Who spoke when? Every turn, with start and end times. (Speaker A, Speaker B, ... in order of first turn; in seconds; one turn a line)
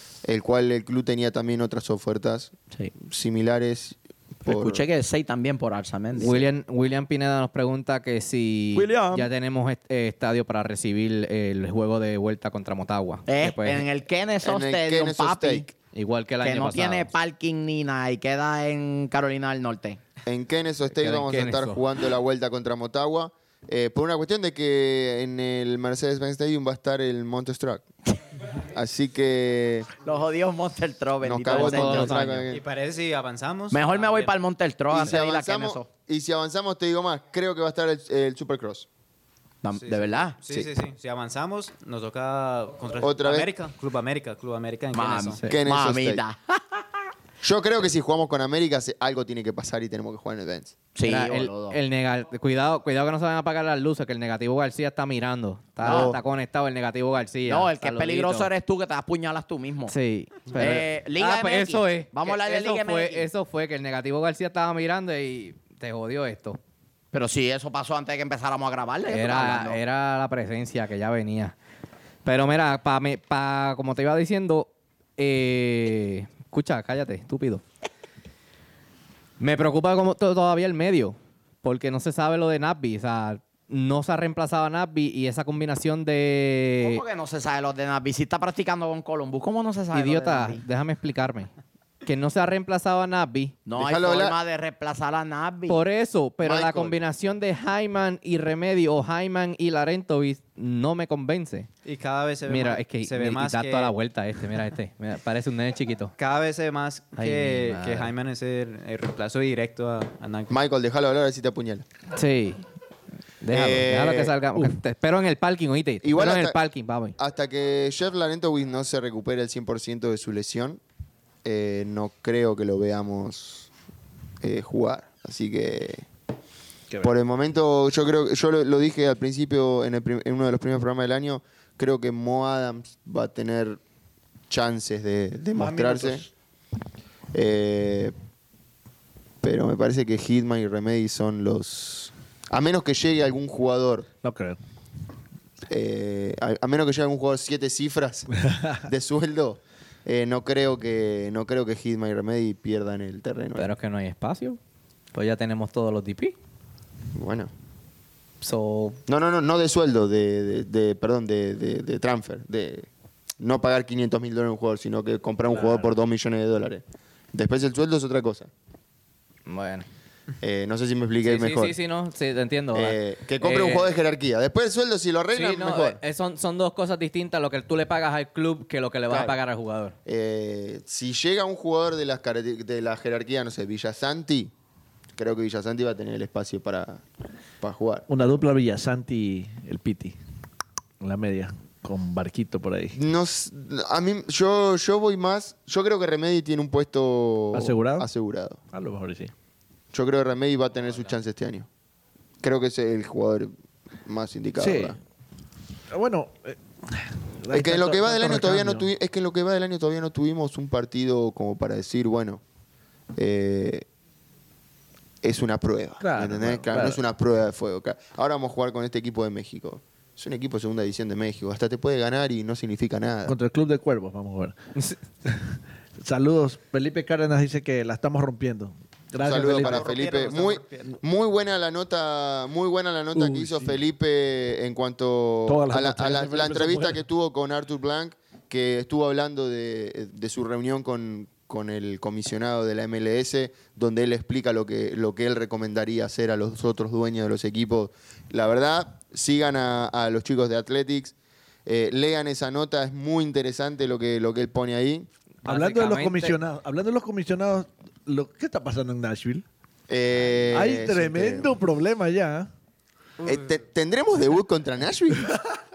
Speaker A: 0.2-4.8
Speaker B: 4.4-6.5
Speaker C: 6.1-13.9
Speaker B: 8.8-9.3
Speaker B: 13.3-15.7
Speaker A: 14.4-15.7
Speaker C: 15.9-17.1
Speaker B: 16.4-20.0
Speaker A: 20.2-27.9
Speaker C: 20.9-21.8
Speaker A: 28.6-29.9
Speaker B: 30.0-32.4
Speaker A: 31.2-32.6
Speaker C: 31.5-32.3
Speaker D: 31.8-34.3
Speaker B: 33.7-35.9
Speaker A: 34.9-38.9
Speaker B: 39.6-40.7
Speaker D: 39.8-45.4
Speaker A: 43.0-43.5
Speaker B: 44.9-46.8
Speaker A: 45.4-46.2
Speaker A: 47.4-50.8
Speaker B: 50.9-51.8
Speaker C: 51.0-58.5
Speaker B: 55.8-56.2
Speaker A: 55.8-56.2
Speaker B: 57.5-59.9
Speaker C: 59.9-66.6
Speaker B: 60.5-63.3
Speaker B: 67.1-69.8
Speaker C: 69.1-71.5
Speaker C: 72.2-77.6
Speaker C: 79.4-87.0
Speaker B: 86.8-90.6
Speaker C: 89.9-91.5
Speaker C: 92.0-93.6
Speaker B: 93.7-95.8
Speaker A: 93.8-94.4
Speaker C: 95.7-101.7
Speaker A: 96.4-97.0
Speaker D: 101.8-104.0
Speaker C: 102.5-106.1
Speaker D: 106.2-110.6
Speaker C: 107.2-108.1
Speaker A: 110.5-111.8
Speaker C: 112.1-112.6
Speaker C: 113.4-117.2
Speaker A: 113.5-114.3
Speaker A: 116.0-116.6
Speaker A: 117.2-120.8
Speaker A: 121.4-123.7
Speaker A: 124.4-126.0
Speaker A: 127.0-133.8
Speaker A: 134.5-136.2
Speaker E: 135.6-136.2
Speaker A: 137.3-138.1
Speaker A: 139.4-144.1
Speaker E: 144.2-144.6
Speaker A: 145.7-153.7
Speaker E: 148.4-148.8
Speaker C: 153.6-154.6
Speaker C: 155.1-156.3
Speaker A: 157.1-157.5
Speaker C: 158.4-159.0
Speaker A: 159.1-162.9
Speaker A: 163.4-168.5
Speaker D: 165.5-165.9
Speaker C: 169.4-169.9
Speaker A: 170.4-171.7
Speaker C: 171.2-173.9
Speaker A: 172.7-176.0
Speaker C: 175.3-179.9
Speaker A: 179.1-179.4
Speaker A: 180.1-184.5
Speaker A: 185.2-187.0
Speaker A: 187.6-188.1
Speaker E: 188.1-190.2
Speaker E: 191.0-193.0
Speaker A: 192.9-198.6
Speaker E: 197.5-198.1
Speaker E: 198.7-199.3
Speaker A: 199.9-201.7
Speaker A: 202.4-203.5
Speaker A: 204.0-205.0
Speaker E: 204.6-205.0
Speaker E: 205.9-208.9
Speaker A: 207.5-212.4
Speaker A: 213.2-213.8
Speaker A: 215.2-223.3
Speaker E: 216.0-217.0
Speaker E: 223.2-224.5
Speaker E: 225.2-230.0
Speaker A: 229.2-251.1
Speaker D: 229.2-230.9
Speaker E: 233.1-233.8
Speaker E: 235.5-237.0
Speaker A: 251.7-255.1
Speaker C: 255.4-256.4
Speaker E: 255.4-259.4
Speaker A: 259.9-261.6
Speaker E: 260.5-262.5
Speaker D: 263.2-263.5
Speaker A: 263.2-265.4
Speaker E: 265.2-265.6